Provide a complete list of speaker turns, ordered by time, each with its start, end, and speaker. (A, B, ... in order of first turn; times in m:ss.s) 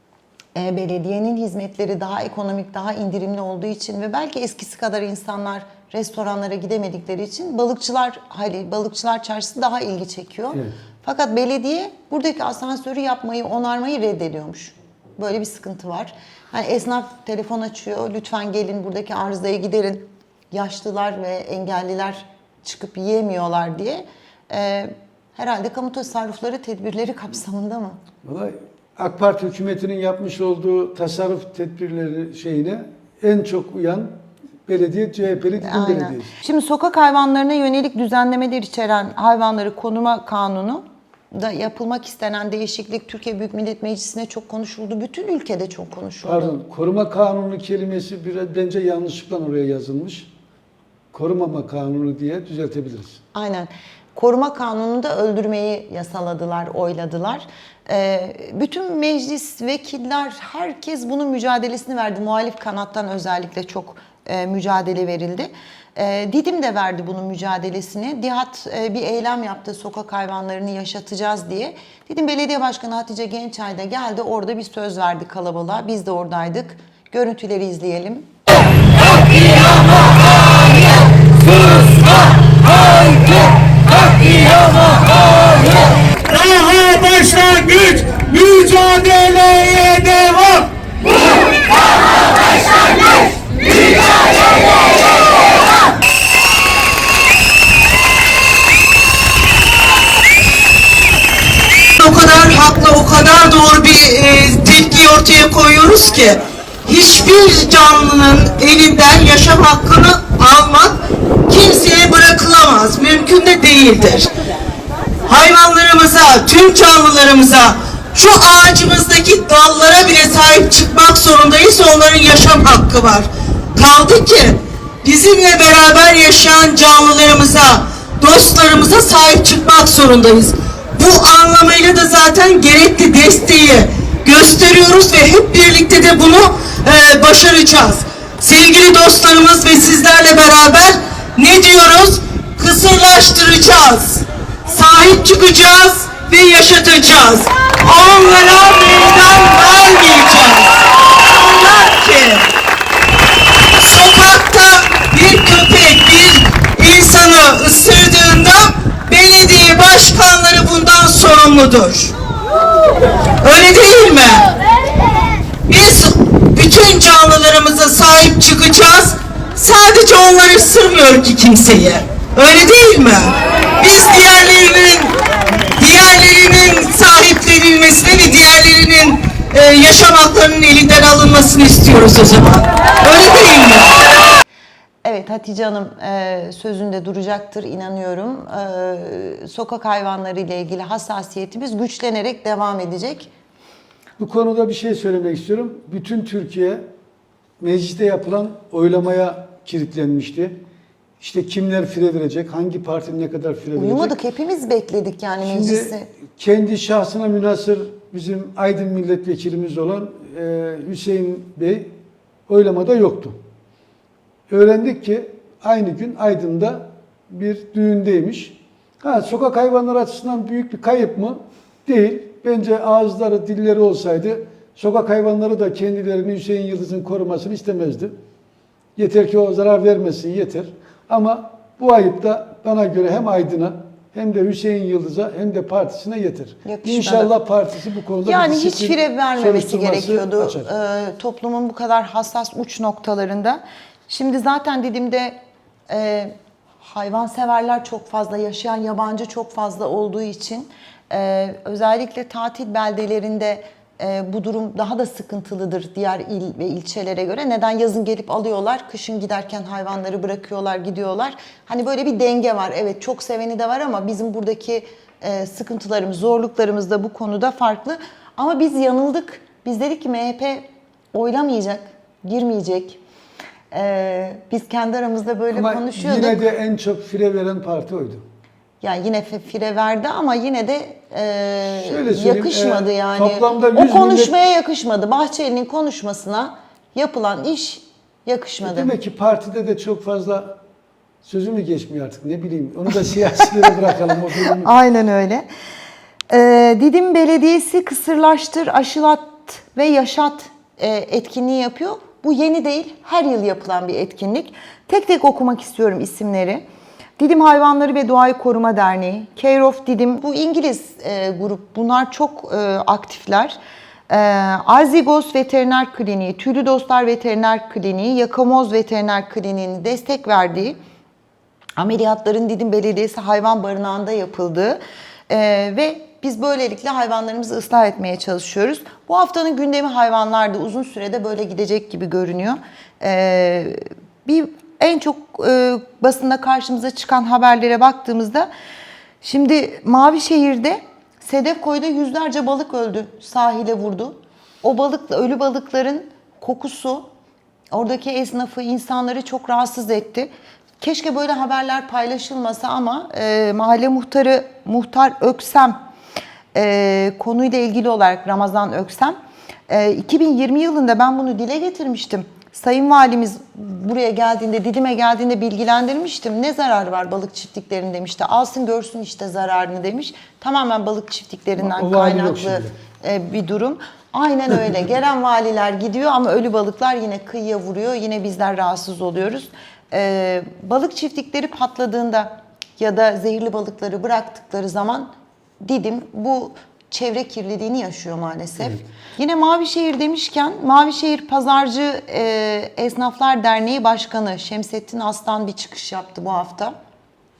0:00.5-0:28.0 A
0:28.2-0:34.2 B
0:34.7-0:36.3 B
0:35.6-0:46.5 A
0:46.2-0:50.3 B
0:51.1-0:53.2 B
0:53.3-1:18.3 A
1:26.3-1:30.7 C
1:42.0-1:54.3 C
1:55.3-2:32.5 C
2:33.8-2:42.1 C
2:43.4-2:44.5 C
2:45.7-2:55.1 C
2:55.8-3:04.0 C
3:05.0-3:13.3 A
3:14.2-3:16.9 B
3:17.6-3:20.6 B
3:21.2-3:24.2 B
3:23.8-3:26.1 A
3:25.4-3:31.9 B
3:32.5-3:33.4 B
3:34.5-3:48.1 B
3:49.0-4:00.7 B
3:56.6-3:57.3 A
3:58.2-4:05.4 A
4:05.9-4:33.0 A
4:33.7-4:36.4 A
4:35.5-4:38.2 B
4:38.8-4:48.9 A
4:41.7-4:44.3 B
4:48.6-4:50.6 B
4:51.2-4:54.7 B
4:54.4-4:55.5 A
4:56.3-5:06.6 A
5:07.2-5:13.6 A
5:14.1-5:20.8 A
5:21.8-5:38.5 A
5:39.2-5:47.1 A
5:47.7-5:55.8 A
5:56.5-5:59.2 A
5:59.7-6:25.1 A
6:11.6-6:12.7 B
6:25.6-6:36.8 A